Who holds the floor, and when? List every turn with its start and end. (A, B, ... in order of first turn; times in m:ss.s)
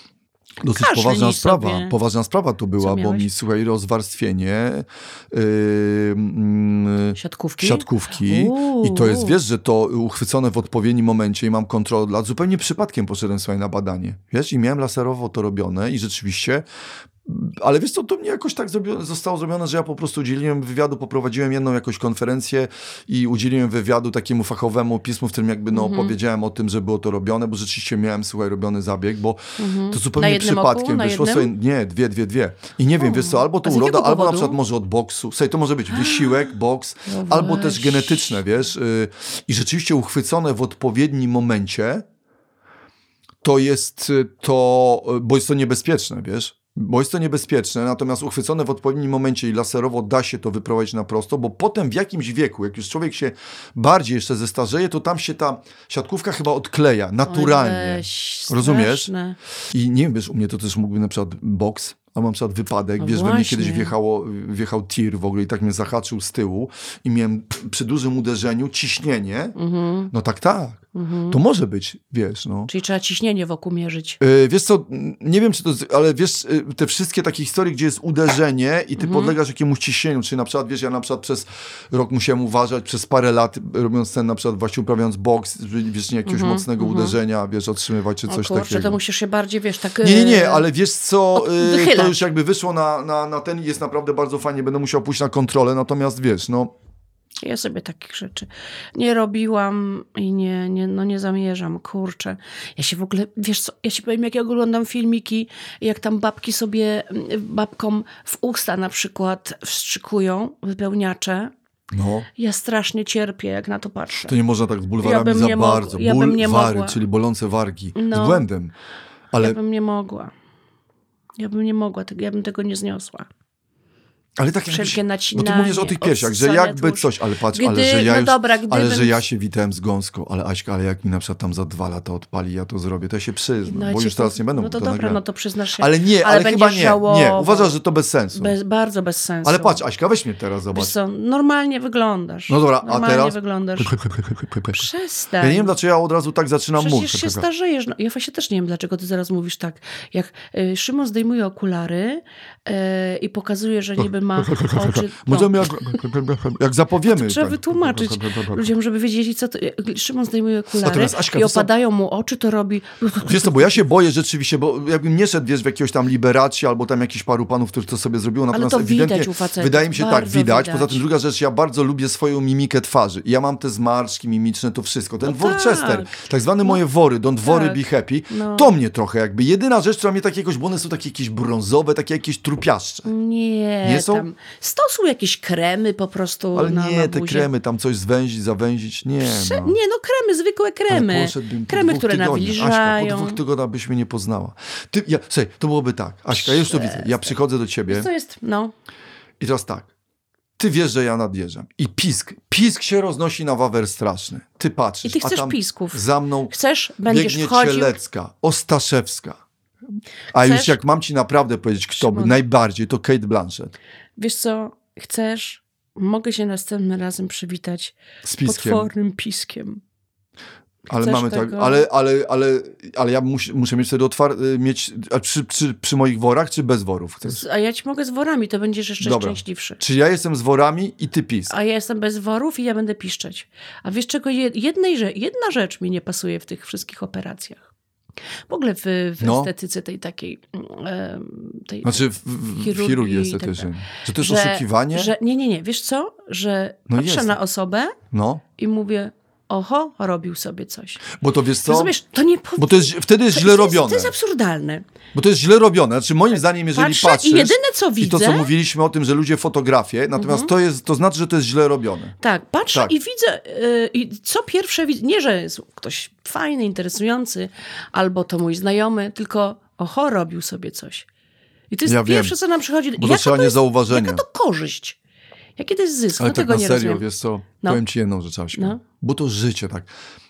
0:00.6-0:16.6 A
0:00.7-0:01.9 B
0:02.8-0:03.3 B
0:07.2-0:09.4 B
0:17.2-0:42.0 A
0:25.7-0:26.1 B
0:29.6-0:31.5 B
0:33.0-0:34.6 B
0:35.9-0:36.5 B
0:37.0-0:38.4 B
0:43.4-0:59.1 A
0:57.3-0:59.4 B
0:59.7-1:09.5 A
1:03.0-1:03.9 B
1:09.6-1:10.1 B
1:10.1-1:12.7 A
1:10.9-1:11.4 B
1:12.7-1:14.2 B
1:14.2-1:29.0 A
1:19.0-1:19.3 B
1:26.2-1:27.2 B
1:28.3-1:30.6 B
1:30.0-1:36.7 A
1:31.3-1:32.2 B
1:37.4-1:51.5 B
1:51.9-1:52.3 A
1:52.4-1:54.3 B
1:54.2-1:58.7 A
1:55.0-1:57.0 B
1:57.9-1:58.4 B
1:59.3-1:59.6 A
1:59.4-2:00.3 B
2:01.4-2:03.3 B
2:04.4-2:15.2 A
2:04.7-2:09.2 B
2:13.6-2:17.7 B
2:15.8-2:18.5 A
2:18.3-2:19.8 B
2:19.4-2:20.9 A
2:20.7-2:23.9 B
2:22.5-2:24.9 A
2:24.7-2:25.7 B
2:25.4-2:27.4 A
2:26.8-2:35.7 B
2:34.0-2:38.7 A
2:37.0-2:43.8 B
2:40.8-2:41.7 A
2:43.2-3:03.1 A
2:48.5-2:51.0 B
2:55.2-2:56.8 B
2:57.4-2:58.7 B
3:03.0-3:07.5 B
3:03.8-3:04.2 A
3:06.5-3:09.8 A
3:09.2-3:13.4 B
3:10.9-3:18.1 A
3:16.3-3:17.4 B
3:17.9-3:18.7 B
3:19.4-3:19.9 A
3:20.6-3:26.5 A
3:25.0-3:28.0 B
3:27.1-3:29.4 A
3:30.3-3:33.7 A
3:30.3-3:30.8 B
3:32.0-3:32.4 B
3:34.2-3:39.8 B
3:38.2-3:38.9 A
3:40.9-3:41.8 B
3:40.9-3:47.4 A
3:47.2-3:49.8 B
3:49.0-3:51.5 A
3:51.5-3:57.7 B
3:58.5-4:08.0 B
3:59.2-3:59.5 A
4:01.8-4:05.1 A
4:06.9-4:07.4 A
4:08.1-4:08.4 A
4:08.6-4:11.0 B
4:11.1-4:11.9 A
4:11.6-4:14.8 B
4:12.6-4:14.1 A
4:15.1-4:22.2 A
4:16.7-4:18.5 B
4:20.2-4:20.5 B
4:22.2-4:31.0 B
4:31.7-4:35.0 B
4:31.8-4:32.4 A
4:33.0-4:34.2 A
4:35.6-4:37.0 B
4:36.2-4:39.9 A
4:38.5-4:38.8 B